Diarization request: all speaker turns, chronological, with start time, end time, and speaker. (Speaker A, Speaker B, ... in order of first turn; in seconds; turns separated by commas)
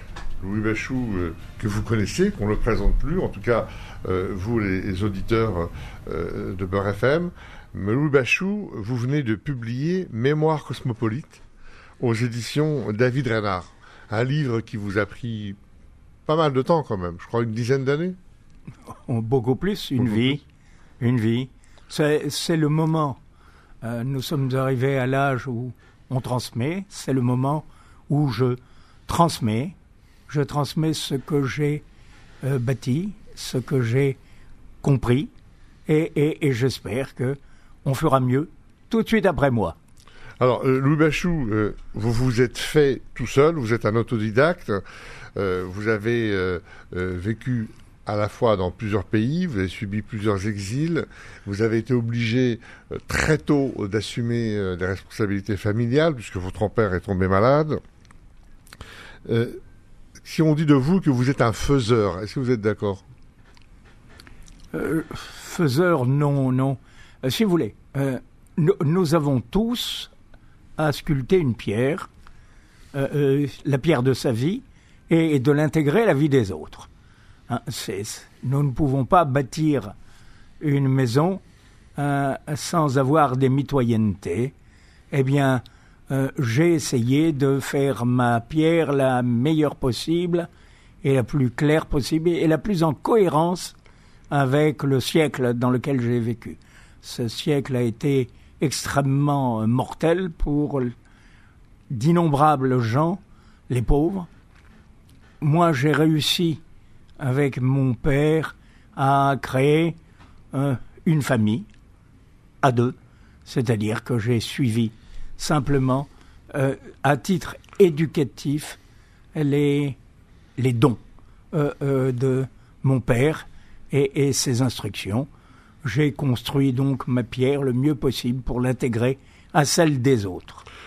Speaker A: 0.4-11.4, Speaker A: 12.0-15.6, Speaker A: 16.3-18.2, Speaker B: 19.1-20.4, Speaker A: 20.0-20.4, Speaker B: 21.0-23.2, Speaker B: 23.8-29.8, Speaker B: 30.3-31.8, Speaker B: 32.4-34.2, Speaker B: 34.8-35.3, Speaker B: 35.9-39.8, Speaker A: 40.4-44.8, Speaker A: 45.4-57.8, Speaker A: 59.2-59.6, Speaker A: 60.2-63.0, Speaker B: 64.7-70.1, Speaker B: 70.8-72.1, Speaker B: 72.9-76.9, Speaker B: 77.5-79.9, Speaker B: 80.6-81.4, Speaker B: 82.0-84.5, Speaker B: 85.1-90.5, Speaker B: 91.0-93.8, Speaker B: 94.3-100.9, Speaker B: 101.9-104.3, Speaker B: 105.4-106.6, Speaker B: 107.2-110.0, Speaker B: 110.5-111.7, Speaker B: 112.6-118.8, Speaker B: 119.3-120.0, Speaker B: 120.6-121.0, Speaker B: 121.5-125.3, Speaker B: 125.8-130.6